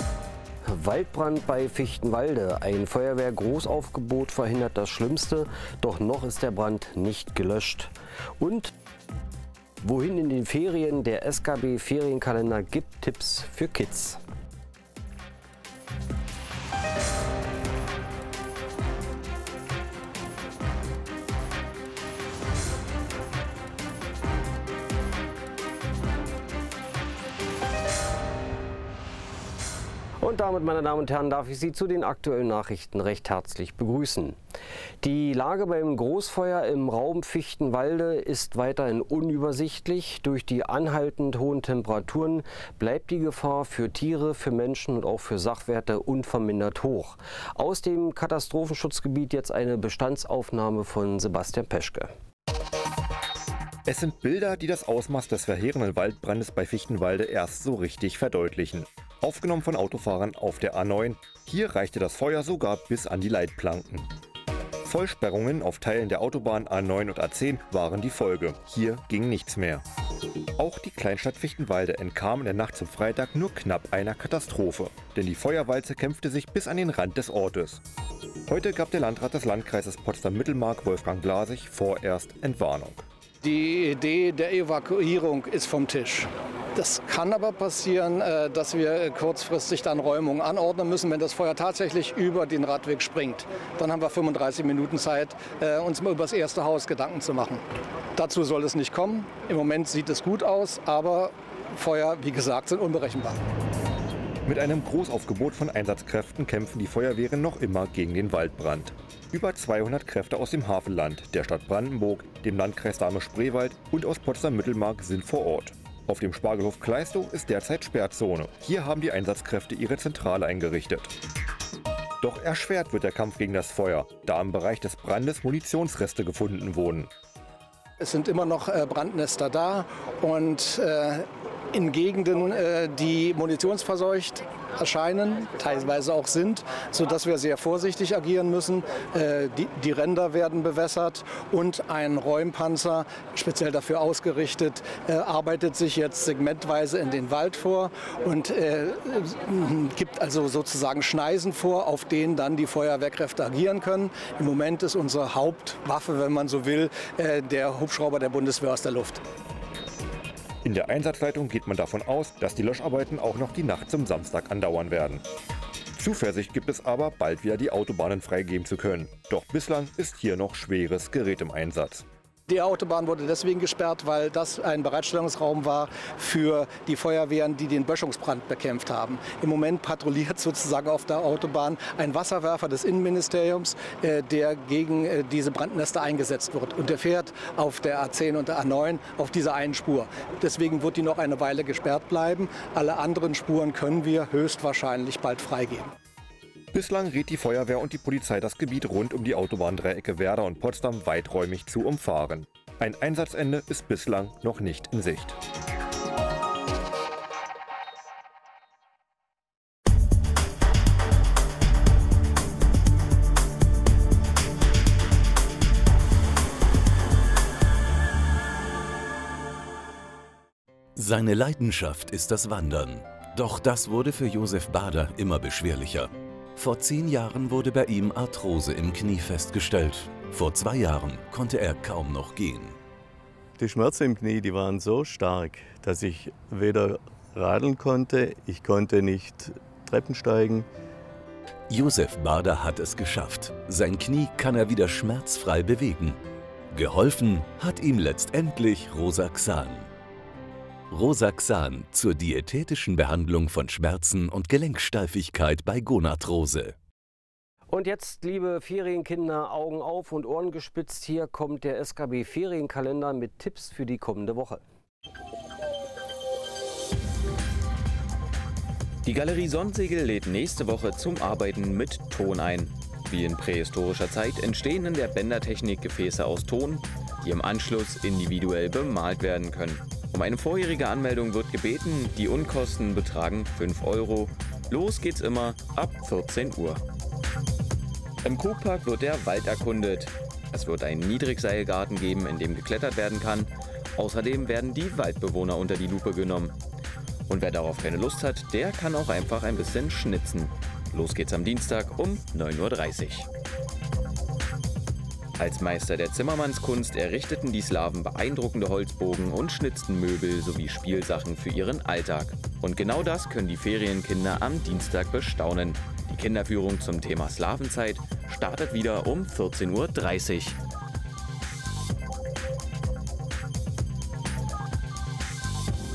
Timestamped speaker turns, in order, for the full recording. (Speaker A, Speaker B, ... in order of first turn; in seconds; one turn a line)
Speaker A: 0.6-8.7
Speaker A: 9.8-14.2
Speaker A: 30.2-34.4
Speaker A: 35.0-52.1
Speaker B: 53.9-64.1
Speaker B: 64.8-69.8
Speaker B: 70.6-77.8
Speaker B: 78.5-83.0
Speaker C: 83.4-97.6
Speaker C: 98.2-103.4
Speaker B: 104.5-121.1
Speaker B: 122.2-127.1
Speaker C: 128.0-159.2
Speaker B: 160.6-165.2
Speaker B: 165.9-172.0
Speaker C: 172.5-195.9
Speaker B: 196.7-205.4
Speaker D: 220.9-232.8
Speaker E: 233.6-240.7
Speaker D: 241.7-246.2
Speaker D: 246.7-249.9
Speaker D: 250.9-256.8
Speaker A: 257.7-264.6
Speaker F: 269.0-286.8
Speaker F: 288.2-296.5
Speaker F: 297.3-303.3
Speaker F: 305.4-320.6